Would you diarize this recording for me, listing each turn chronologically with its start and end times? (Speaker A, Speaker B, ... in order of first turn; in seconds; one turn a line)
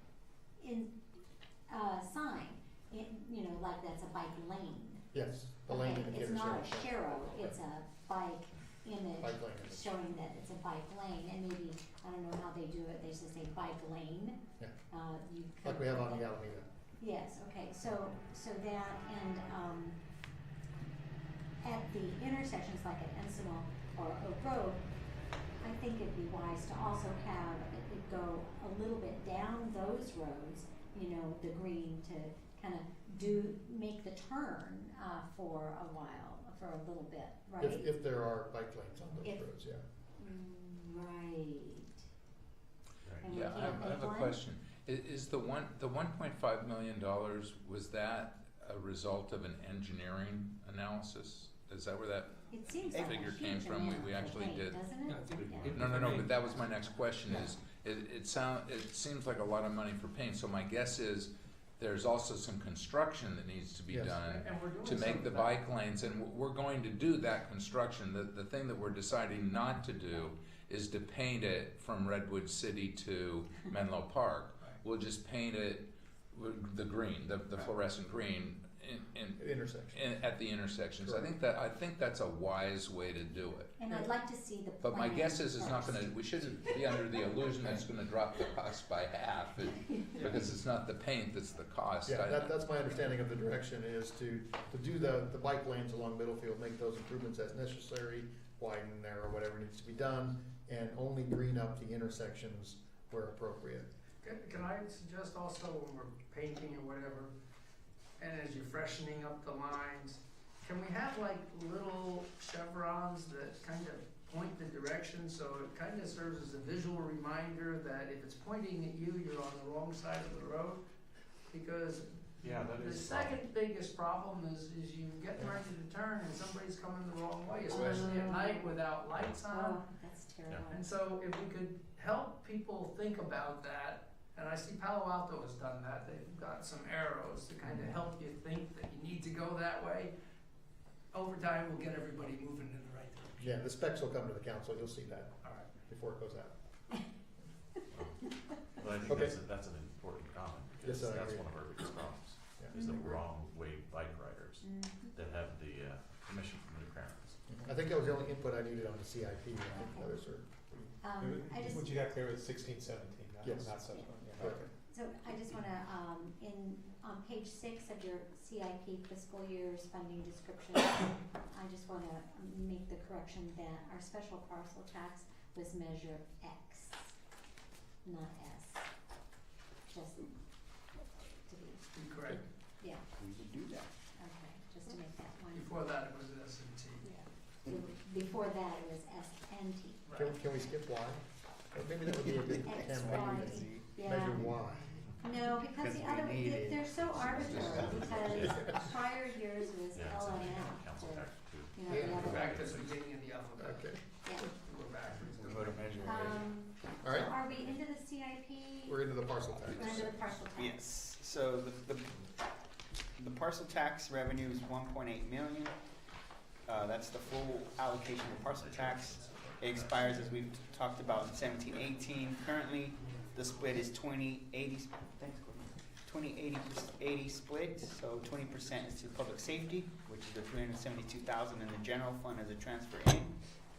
Speaker A: 0.6-0.9
Speaker A: 1.7-5.0
Speaker B: 5.1-7.6
Speaker A: 5.7-16.2
Speaker B: 9.2-9.9
Speaker B: 15.6-16.7
Speaker A: 17.0-20.0
Speaker A: 21.6-24.8
Speaker A: 25.6-37.8
Speaker B: 37.6-39.8
Speaker A: 40.2-42.0
Speaker C: 43.0-43.3
Speaker A: 43.2-44.4
Speaker D: 43.2-54.8
Speaker B: 43.5-43.9
Speaker A: 52.5-55.7
Speaker E: 52.9-53.3
Speaker F: 55.0-56.3
Speaker C: 55.4-55.9
Speaker D: 55.6-83.7
Speaker B: 63.9-64.2
Speaker G: 64.2-65.6
Speaker B: 79.4-80.0
Speaker B: 81.0-81.3
Speaker A: 83.8-86.1
Speaker D: 84.8-92.5
Speaker B: 92.0-103.9
Speaker G: 104.2-107.3
Speaker G: 108.2-120.8
Speaker G: 121.5-129.8
Speaker F: 122.4-123.0
Speaker C: 122.4-123.3
Speaker A: 127.7-130.8
Speaker G: 130.7-140.1
Speaker G: 141.1-143.5
Speaker B: 143.4-146.6
Speaker G: 145.4-145.8
Speaker C: 147.9-157.5
Speaker B: 149.1-149.4
Speaker B: 150.8-151.5
Speaker B: 152.6-153.2
Speaker A: 154.6-155.1
Speaker B: 157.5-160.7
Speaker A: 159.7-160.1
Speaker F: 160.8-164.7
Speaker A: 161.0-161.9
Speaker B: 163.4-163.7
Speaker B: 164.4-164.7
Speaker A: 164.9-177.2
Speaker A: 178.0-178.9
Speaker A: 179.9-180.3
Speaker A: 181.2-181.9
Speaker G: 181.9-182.4
Speaker A: 182.8-183.0
Speaker E: 183.2-183.9
Speaker A: 184.1-185.7
Speaker G: 185.5-187.1
Speaker A: 187.0-190.0
Speaker G: 190.0-190.3
Speaker B: 190.1-195.0
Speaker A: 192.6-194.6
Speaker E: 192.9-193.8
Speaker A: 195.2-202.7
Speaker E: 195.7-198.1
Speaker D: 197.3-198.5
Speaker C: 197.9-198.4
Speaker C: 199.9-203.1
Speaker B: 201.9-202.3
Speaker G: 202.2-206.0
Speaker B: 203.6-204.5
Speaker E: 205.3-206.4
Speaker A: 206.0-209.0
Speaker B: 207.0-207.4
Speaker B: 208.9-210.3
Speaker A: 209.7-210.7
Speaker E: 210.5-212.3
Speaker E: 213.1-215.8
Speaker E: 216.7-233.4
Speaker G: 217.8-222.3
Speaker C: 218.5-220.1
Speaker G: 222.9-223.8